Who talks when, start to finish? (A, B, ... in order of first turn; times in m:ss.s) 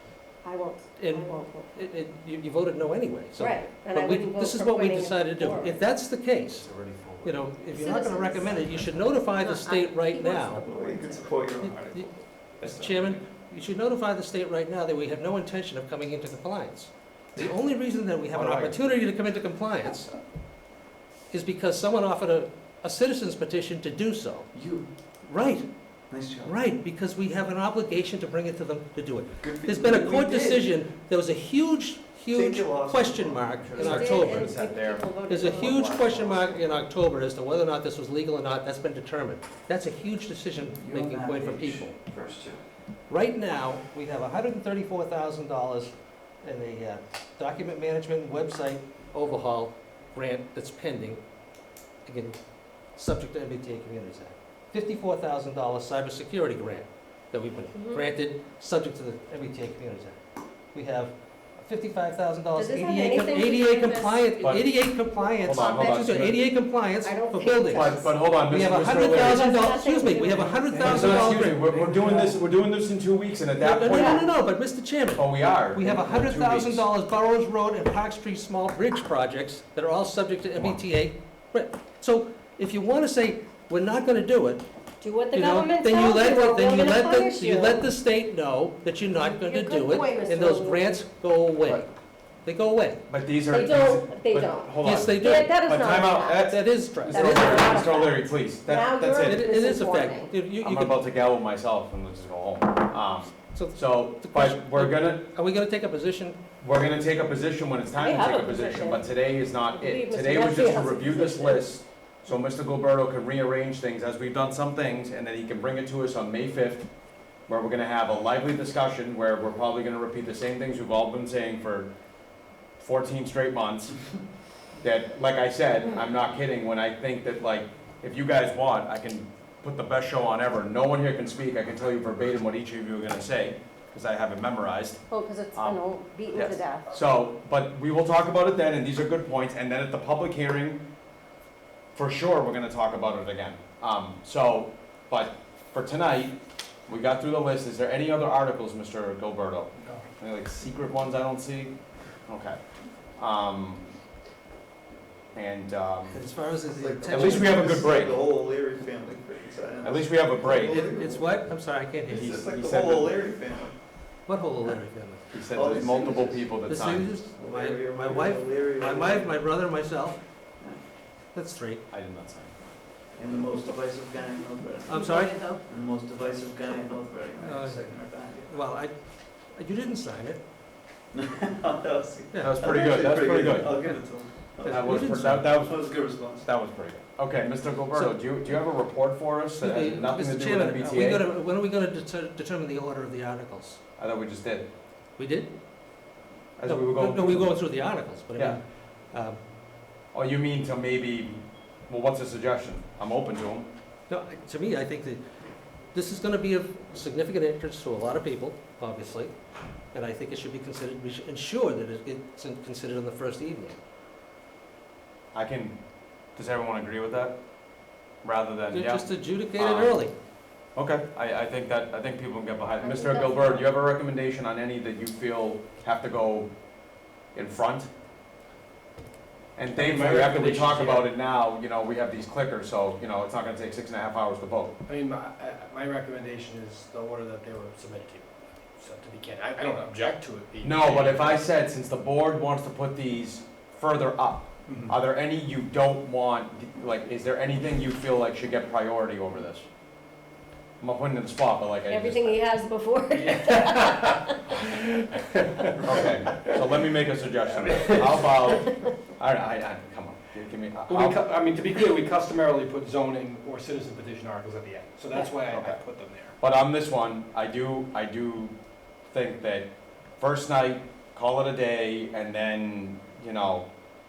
0:00.4-0:01.7 A
0:01.0-0:06.7 B
0:03.4-0:05.8 A
0:06.6-0:07.4 C
0:07.2-0:10.6 B
0:07.7-0:08.7 A
0:09.3-0:11.3 A
0:10.6-0:13.2 D
0:11.6-0:20.1 B
0:18.4-0:18.8 C
0:21.3-0:24.5 B
0:24.5-0:24.9 D
0:25.3-0:25.7 B
0:26.1-0:26.6 D
0:26.4-0:34.5 B
0:29.4-0:30.7 D
0:32.3-0:34.1 D
0:33.8-0:36.0 A
0:33.8-0:36.5 C
0:35.3-0:41.9 B
0:40.8-0:42.6 D
0:43.1-0:51.2 B
0:52.0-0:52.4 B
0:53.0-1:00.2 B
0:57.7-0:58.0 A
1:00.7-1:11.6 B
1:02.6-1:04.4 A
1:04.4-1:04.8 C
1:05.4-1:06.4 C
1:05.4-1:06.2 A
1:07.0-1:08.0 A
1:07.6-1:09.5 C
1:08.9-1:10.8 A
1:10.7-1:12.4 D
1:10.8-1:14.3 C
1:13.6-1:24.6 B
1:13.8-1:14.3 A
1:15.1-1:16.9 C
1:25.0-1:27.9 A
1:25.3-1:31.9 B
1:29.2-1:31.0 A
1:32.4-1:33.0 B
1:33.1-1:39.4 C
1:33.5-1:36.5 A
1:34.8-1:35.5 B
1:36.3-1:37.7 B
1:37.1-1:40.3 A
1:39.2-1:41.0 B
1:40.6-1:45.2 C
1:43.5-1:46.4 B
1:46.6-1:56.8 C
1:48.0-1:49.2 A
1:49.7-1:51.7 A
1:57.5-2:01.9 C
2:02.8-2:04.0 C
2:04.8-2:15.0 C
2:15.1-2:16.9 A
2:15.5-2:20.8 C
2:22.0-2:26.4 C
2:26.9-2:31.8 C
2:32.3-2:32.6 C
2:33.2-2:33.9 C
2:35.3-2:36.2 C
2:36.1-2:38.1 B
2:36.8-2:41.4 D
2:37.1-2:38.2 C
2:39.8-2:40.8 C
2:40.7-2:42.3 B
2:42.1-2:43.8 D
2:42.1-2:43.2 C
2:44.3-2:45.2 B
2:45.3-2:47.1 C
2:45.5-2:46.5 D
2:46.7-2:50.2 B
2:47.4-2:49.4 D
2:51.3-2:51.8 B
2:51.9-2:52.5 C
2:53.2-2:55.1 D
2:54.9-2:55.4 B
2:54.9-2:55.6 A
2:55.7-2:58.6 D
2:57.4-2:58.9 B
2:59.5-3:00.4 B
3:01.1-3:06.5 D
3:02.3-3:02.6 B
3:02.4-3:03.9 C
3:04.6-3:11.3 C
3:04.6-3:05.5 B
3:09.6-3:13.8 B
3:14.0-3:14.7 C
3:15.2-3:15.5 B
3:16.6-3:17.5 C
3:16.7-3:18.6 B
3:19.1-3:19.4 B
3:20.1-3:23.7 C
3:24.1-3:25.2 B
3:25.9-3:29.3 B
3:29.9-3:33.8 B
3:35.3-3:35.8 C
3:36.3-3:37.4 C
3:38.2-3:40.0 C
3:38.7-3:40.1 B
3:40.8-3:46.5 C
3:42.8-3:43.7 A
3:47.3-3:47.9 C
3:49.6-3:54.7 C
3:49.8-3:51.1 E
3:54.9-4:01.4 E
4:00.6-4:09.7 C
4:04.7-4:05.0 E
4:10.8-4:12.4 C
4:11.9-4:14.4 A
4:13.1-4:16.6 E
4:15.8-4:21.2 C
4:17.5-4:18.4 E
4:20.9-4:26.4 E
4:25.5-4:25.8 C
4:26.4-4:28.6 C
4:29.1-4:33.7 C